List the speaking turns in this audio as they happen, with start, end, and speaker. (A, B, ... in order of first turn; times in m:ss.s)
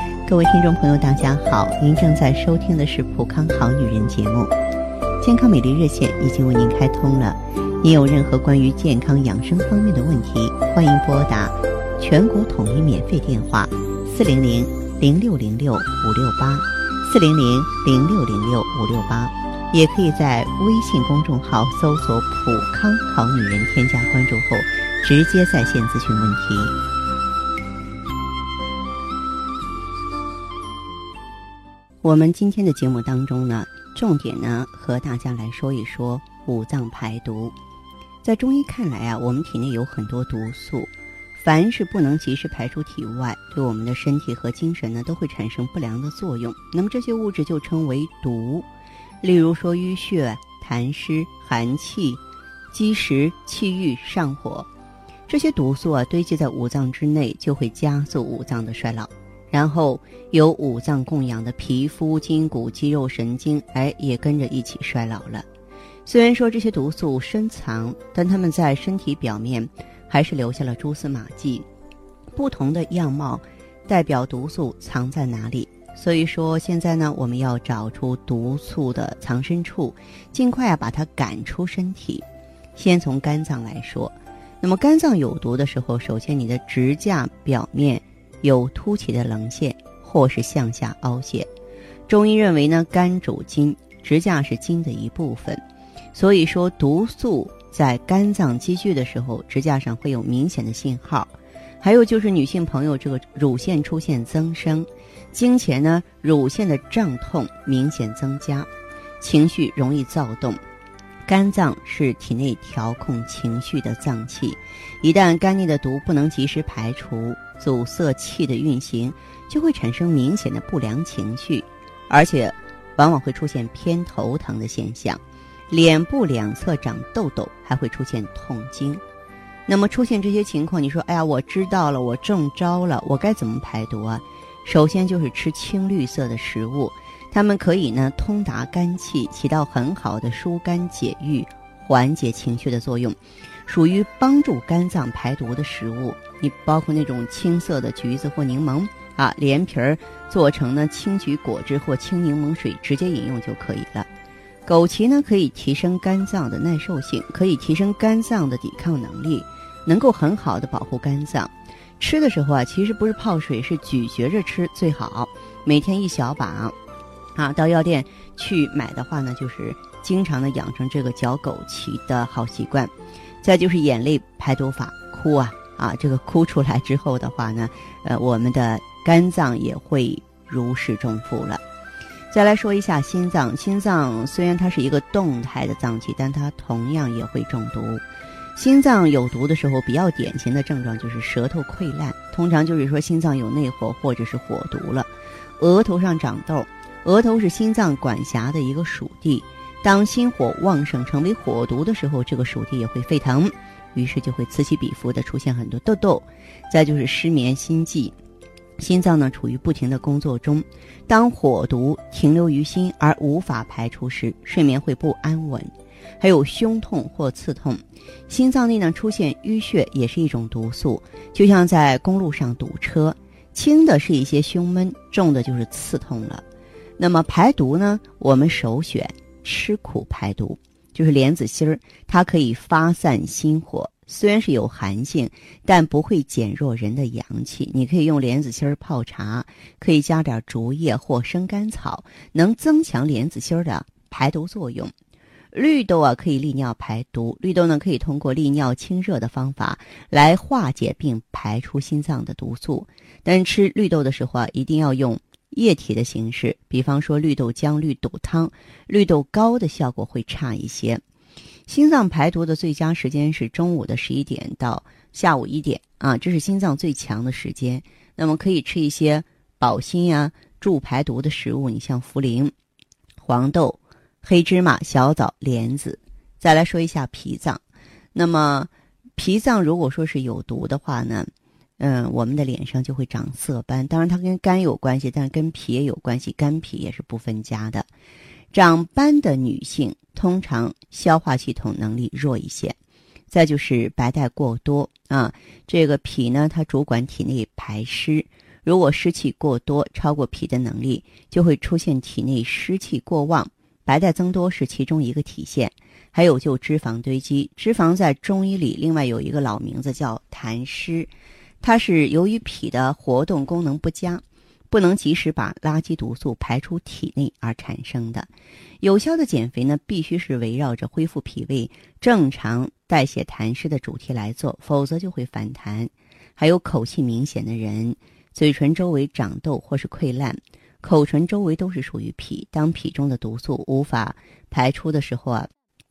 0:00.2-0:04.5 A
0:05.2-0:26.7 A
0:32.0-0:37.5 A
0:38.2-0:48.7 A
0:49.2-0:54.7 A
0:55.3-1:05.4 A
1:06.0-1:11.7 A
1:12.3-1:22.2 A
1:22.8-1:31.5 A
1:32.1-1:35.6 A
1:36.1-1:48.7 A
1:49.2-1:50.6 A
1:51.2-2:09.0 A
2:09.7-2:34.1 A
2:34.6-2:46.7 A
2:47.3-3:01.6 A
3:02.3-3:08.0 A
3:08.6-3:28.1 A
3:28.8-3:46.4 A
3:47.0-4:04.9 A
4:05.5-4:21.0 A
4:21.7-4:32.5 A
4:33.2-4:37.6 A
4:38.1-4:47.9 A
4:48.5-4:52.8 A
4:53.3-5:18.3 A
5:18.8-5:35.5 A